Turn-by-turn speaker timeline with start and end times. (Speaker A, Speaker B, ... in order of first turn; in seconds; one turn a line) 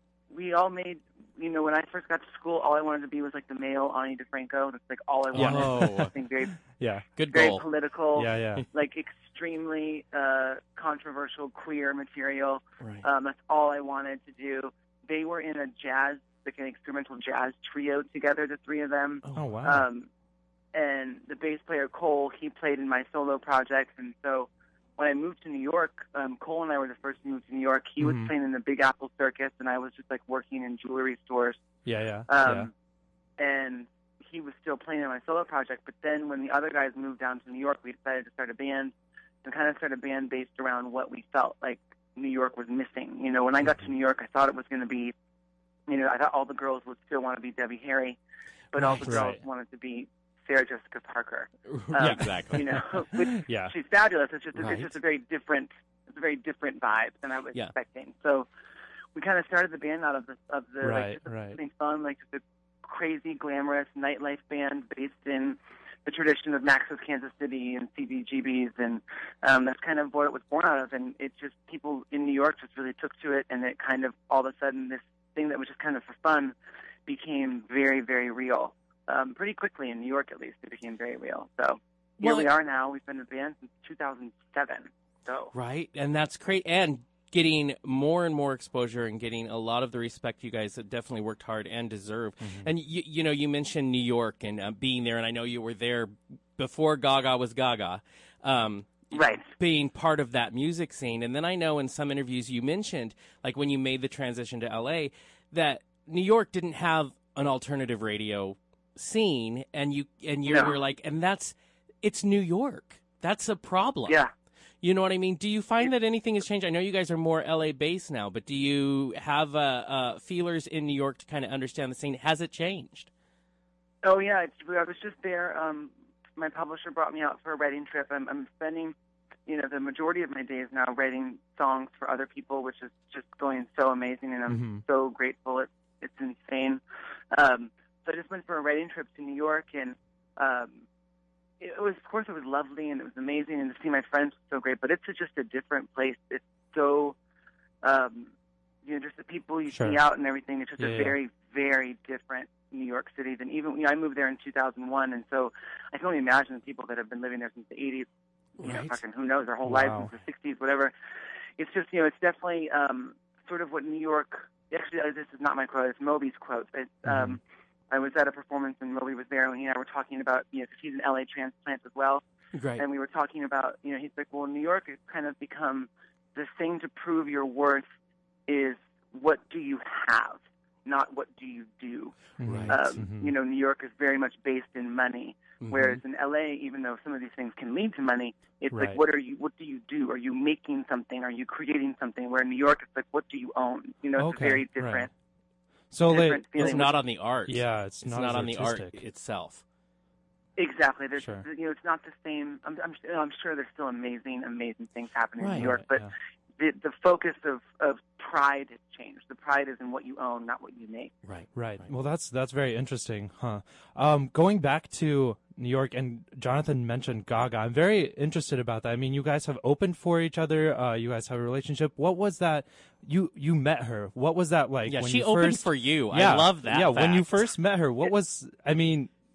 Speaker A: 0.3-6.6
Speaker B: 5.3-6.1
Speaker C: 5.3-6.1
Speaker B: 6.7-7.0
Speaker C: 7.2-7.7
Speaker A: 7.3-20.1
Speaker B: 8.1-8.6
Speaker C: 12.8-13.1
Speaker C: 19.2-19.5
Speaker B: 19.3-19.9
Speaker A: 20.7-31.6
Speaker B: 28.0-28.3
Speaker B: 31.8-32.7
Speaker A: 32.3-32.7
Speaker A: 33.4-38.9
Speaker A: 39.4-45.1
Speaker A: 45.9-48.2
Speaker A: 48.7-58.5
Speaker B: 48.8-49.4
Speaker C: 51.7-52.7
Speaker B: 52.0-53.7
Speaker C: 54.5-54.9
Speaker A: 59.1-76.5
Speaker B: 60.8-61.6
Speaker A: 77.0-85.5
Speaker C: 82.2-82.5
Speaker C: 85.5-114.2
Speaker B: 92.4-92.7
Speaker A: 99.1-99.4
Speaker A: 110.5-110.7
Speaker C: 114.8-123.1
Speaker A: 124.0-128.9
Speaker A: 129.4-136.8
Speaker B: 134.5-134.8
Speaker A: 137.3-140.8
Speaker A: 141.6-147.2
Speaker A: 147.8-148.3
Speaker A: 148.8-158.1
Speaker B: 149.7-150.0
Speaker B: 150.8-151.2
Speaker A: 158.6-160.9
Speaker C: 158.6-159.0
Speaker B: 159.6-160.1
Speaker A: 161.6-172.2
Speaker B: 167.1-167.4
Speaker C: 172.5-172.8
Speaker A: 172.8-177.8
Speaker A: 178.5-182.2
Speaker B: 182.4-183.3
Speaker C: 182.4-182.8
Speaker A: 182.7-195.1
Speaker C: 185.6-186.0
Speaker B: 188.7-189.0
Speaker B: 194.2-195.1
Speaker B: 195.9-196.8
Speaker A: 196.1-196.9
Speaker C: 196.6-199.6
Speaker B: 197.5-199.0
Speaker A: 200.6-211.1
Speaker B: 201.2-201.4
Speaker C: 205.4-205.7
Speaker B: 205.6-206.1
Speaker C: 211.2-211.9
Speaker B: 211.5-229.1
Speaker C: 224.8-227.3